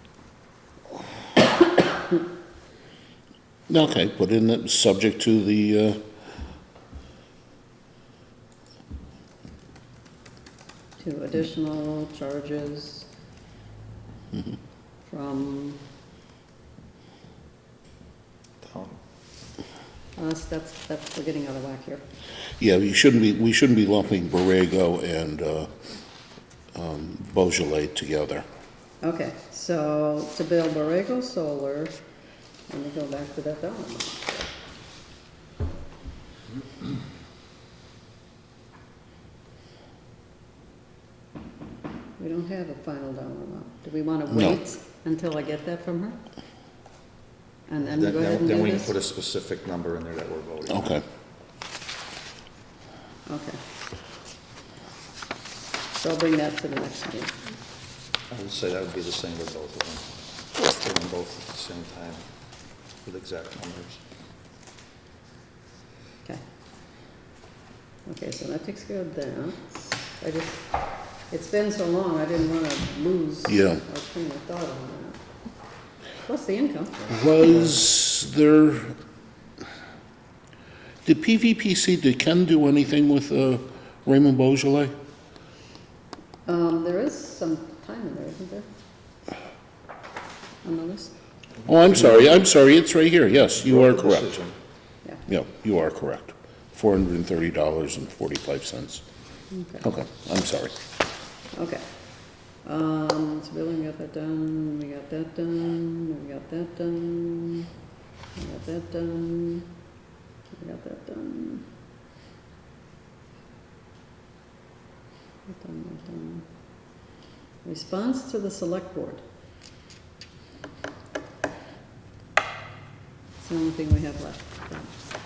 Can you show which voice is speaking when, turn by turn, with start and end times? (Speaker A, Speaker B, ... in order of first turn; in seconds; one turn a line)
Speaker A: 3.7-6.1
Speaker B: 11.0-13.1
Speaker B: 15.1-15.8
Speaker C: 18.6-19.0
Speaker B: 20.1-22.0
Speaker A: 22.6-25.7
Speaker A: 26.7-28.4
Speaker B: 29.0-32.0
Speaker B: 32.7-34.5
Speaker B: 42.2-46.2
Speaker A: 44.3-44.6
Speaker B: 47.7-49.0
Speaker C: 47.8-50.8
Speaker A: 50.7-51.0
Speaker B: 53.3-53.6
Speaker B: 55.9-57.5
Speaker C: 58.3-60.1
Speaker C: 60.6-62.2
Speaker C: 63.0-64.0
Speaker B: 68.0-70.7
Speaker B: 71.3-75.2
Speaker A: 73.5-73.8
Speaker B: 76.2-77.2
Speaker A: 77.1-78.9
Speaker A: 81.0-84.9
Speaker B: 86.5-88.7
Speaker B: 90.6-91.1
Speaker A: 91.7-94.4
Speaker C: 93.6-94.5
Speaker A: 95.3-99.0
Speaker B: 99.5-99.8
Speaker A: 99.8-100.7
Speaker B: 101.5-101.8
Speaker B: 102.6-107.7
Speaker B: 108.3-109.7
Speaker B: 110.5-111.7
Speaker B: 115.5-116.5
Speaker B: 117.6-119.2
Speaker B: 123.4-125.0